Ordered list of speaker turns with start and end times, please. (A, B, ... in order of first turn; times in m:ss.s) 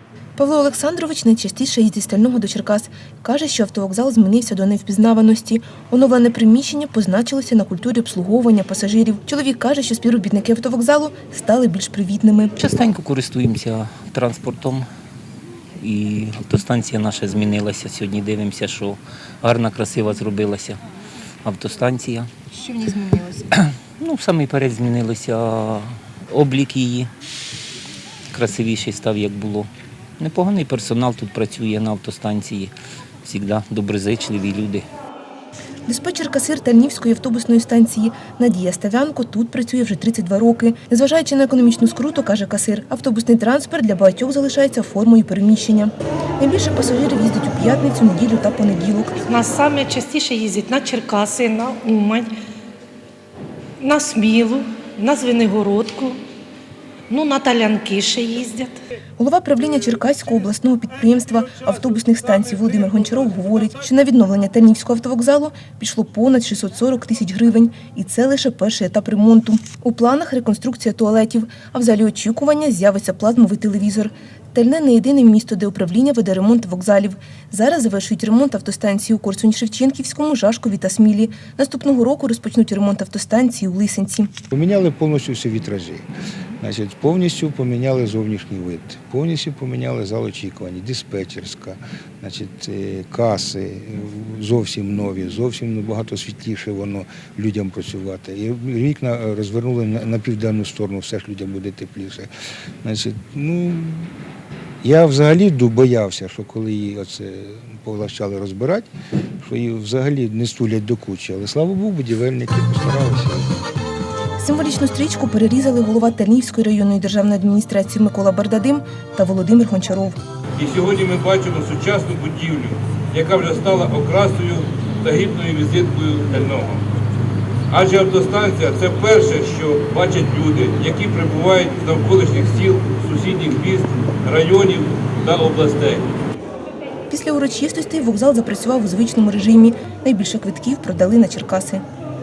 0:00.4-0:12.5 A
0:12.6-0:14.9 B
0:15.8-0:20.8 B
0:21.4-0:22.3 B
0:23.5-0:27.1 B
0:28.3-0:34.8 B
0:35.9-0:49.2 A
0:49.2-0:52.3 C
0:53.8-0:56.2 C
0:57.1-0:58.8 C
0:59.2-1:24.3 A
1:24.5-1:26.1 D
1:26.6-1:42.3 D
1:42.8-1:44.1 D
1:44.8-1:48.9 D
1:49.4-1:53.5 D
1:54.4-2:00.2 A
2:00.6-2:06.8 E
2:07.7-2:16.1 E
2:17.1-2:21.8 A